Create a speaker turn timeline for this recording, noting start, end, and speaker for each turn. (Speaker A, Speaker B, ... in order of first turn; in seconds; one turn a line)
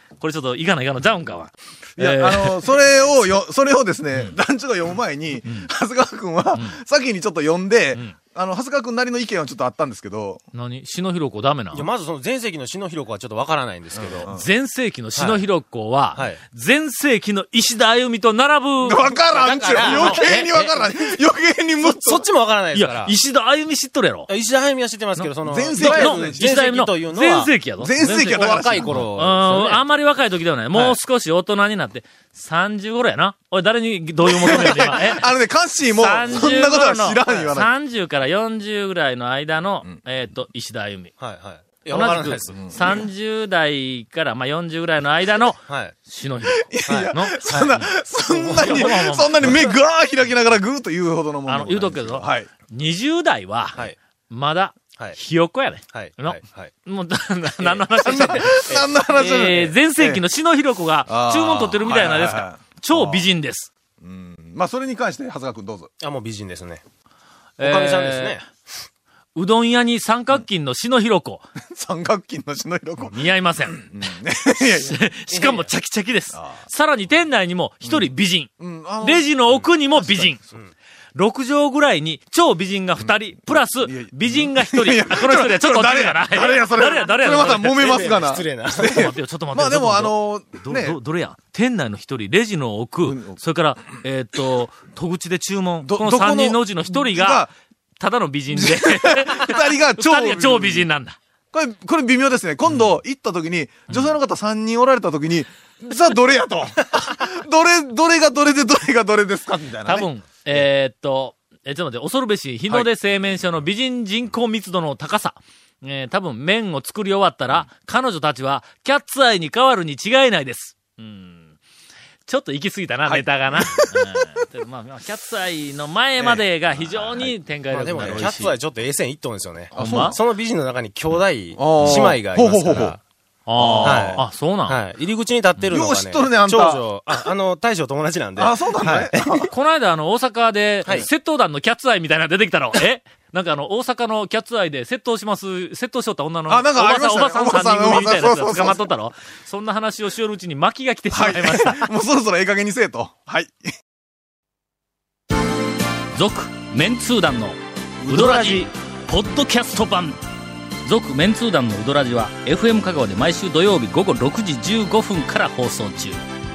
Speaker A: 0.2-2.8
Speaker B: 2.0-10.4
Speaker A: 5.5-5.7
Speaker A: 10.5-11.8
Speaker C: 11.7-14.3
Speaker B: 14.0-14.5
Speaker A: 14.2-19.1
Speaker C: 15.2-15.4
Speaker C: 16.1-16.4
Speaker B: 18.8-22.3
Speaker C: 19.3-21.1
Speaker A: 19.8-20.4
Speaker C: 21.8-23.1
Speaker A: 22.7-24.3
Speaker C: 24.3-27.5
Speaker A: 25.2-35.3
Speaker B: 25.4-26.5
Speaker B: 27.8-29.1
Speaker C: 28.2-29.9
Speaker B: 34.2-37.7
Speaker A: 35.9-41.1
Speaker C: 41.2-42.6
Speaker A: 41.9-49.7
Speaker B: 42.5-43.1
Speaker C: 45.6-46.0
Speaker B: 46.5-52.5
Speaker C: 46.9-47.8
Speaker C: 48.3-48.8
Speaker A: 51.5-63.7
Speaker C: 55.9-56.7
Speaker C: 57.6-58.9
Speaker B: 58.0-60.2
Speaker B: 61.1-63.3
Speaker B: 64.0-65.9
Speaker C: 66.0-66.8
Speaker C: 67.6-68.5
Speaker A: 67.6-68.4
Speaker A: 69.3-71.5
Speaker B: 71.6-75.0
Speaker A: 73.1-73.9
Speaker A: 74.6-80.4
Speaker C: 75.3-75.7
Speaker B: 76.3-76.7
Speaker B: 77.8-80.6
Speaker C: 80.3-80.7
Speaker A: 81.2-88.0
Speaker B: 83.5-91.0
Speaker C: 87.8-89.1
Speaker A: 88.7-97.5
Speaker B: 93.0-93.4
Speaker B: 95.8-97.5
Speaker A: 98.0-101.2
Speaker B: 98.5-100.9
Speaker B: 101.5-110.7
Speaker A: 109.8-121.6
Speaker A: 122.3-128.6
Speaker B: 123.1-124.1
Speaker B: 126.2-127.3
Speaker C: 127.7-133.0
Speaker B: 128.0-128.5
Speaker A: 129.7-130.2
Speaker B: 129.8-130.2
Speaker B: 131.6-133.0
Speaker A: 133.5-134.8
Speaker B: 133.6-134.3
Speaker C: 133.8-139.4
Speaker B: 135.7-136.9
Speaker B: 138.4-139.5
Speaker A: 139.5-151.9
Speaker B: 146.5-148.9
Speaker B: 151.1-153.6
Speaker A: 156.2-160.2
Speaker B: 158.0-158.6
Speaker A: 160.8-166.2